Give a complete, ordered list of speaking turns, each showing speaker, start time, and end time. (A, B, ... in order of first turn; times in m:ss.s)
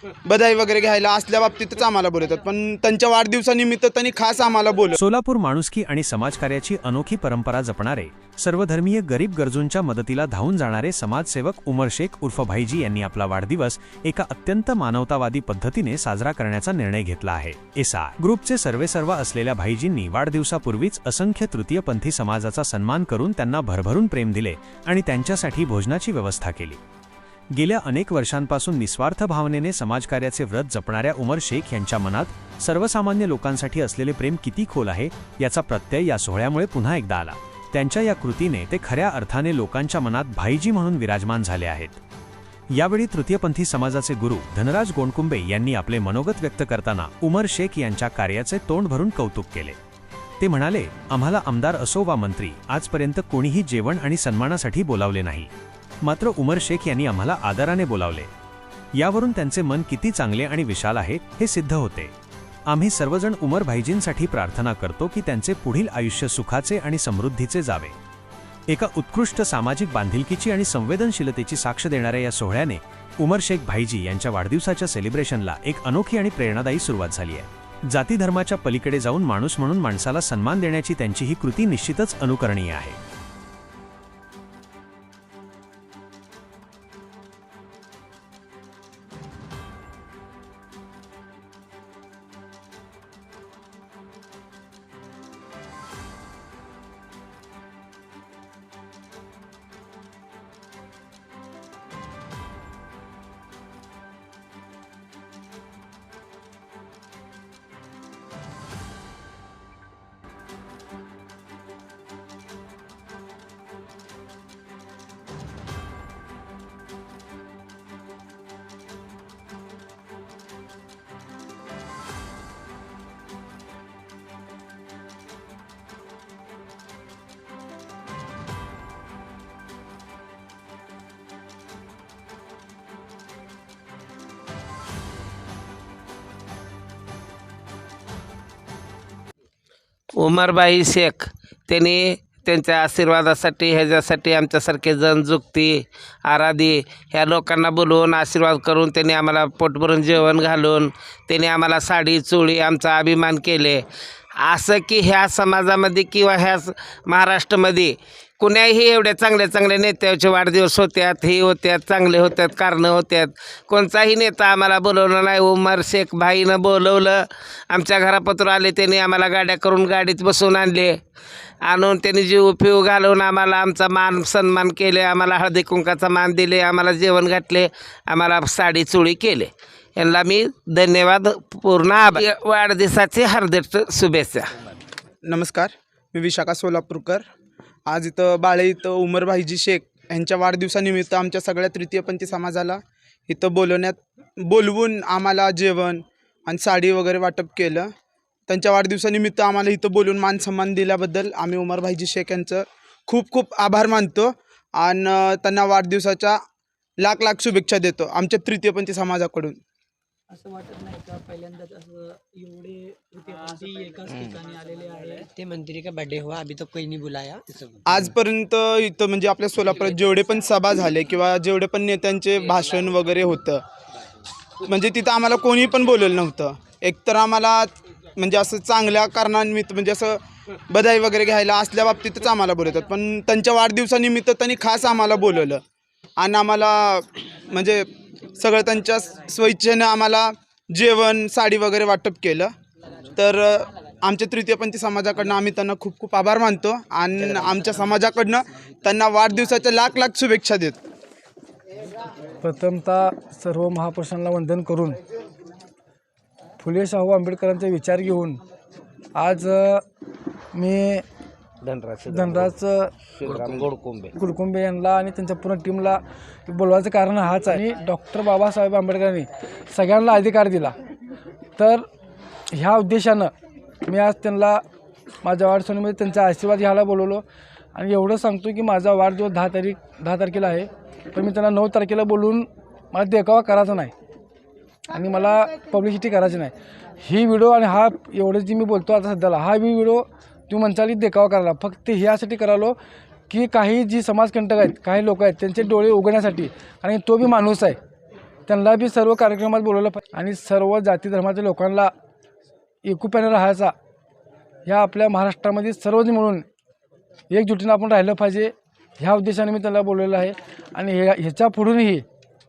0:00.2-0:05.0 A
0:04.9-0:26.8 B
0:27.5-0:42.0 B
0:42.7-0:49.8 B
0:50.4-0:55.5 B
0:56.0-0:58.3 B
0:59.0-1:02.1 B
1:02.7-1:08.0 B
1:08.7-1:23.0 B
2:20.2-2:33.8 C
2:34.4-2:51.0 C
2:51.6-3:04.7 C
3:05.2-3:07.2 A
3:07.9-3:17.9 A
3:18.5-3:26.4 A
3:27.0-3:29.6 A
3:30.3-3:35.3 D
3:35.3-3:38.0 E
3:37.8-3:43.6 A
3:44.6-3:55.6 A
3:56.2-4:02.5 A
4:03.1-4:10.8 A
4:12.4-4:15.0 F
4:16.6-4:18.4 F
4:19.1-4:19.8 F
4:20.5-4:21.0 F
4:21.6-4:22.5 C
4:22.0-4:22.9 F
4:23.2-4:24.1 C
4:24.1-4:30.7 F
4:31.6-4:31.8 F
4:32.5-4:33.3 F
4:33.8-4:34.6 F
4:35.2-4:37.2 F
4:37.7-4:43.9 F
4:44.9-4:52.8 F
4:53.3-4:57.8 F
4:58.5-5:01.9 F
5:02.8-5:03.7 F
5:04.6-5:06.4 F
5:07.3-5:12.0 F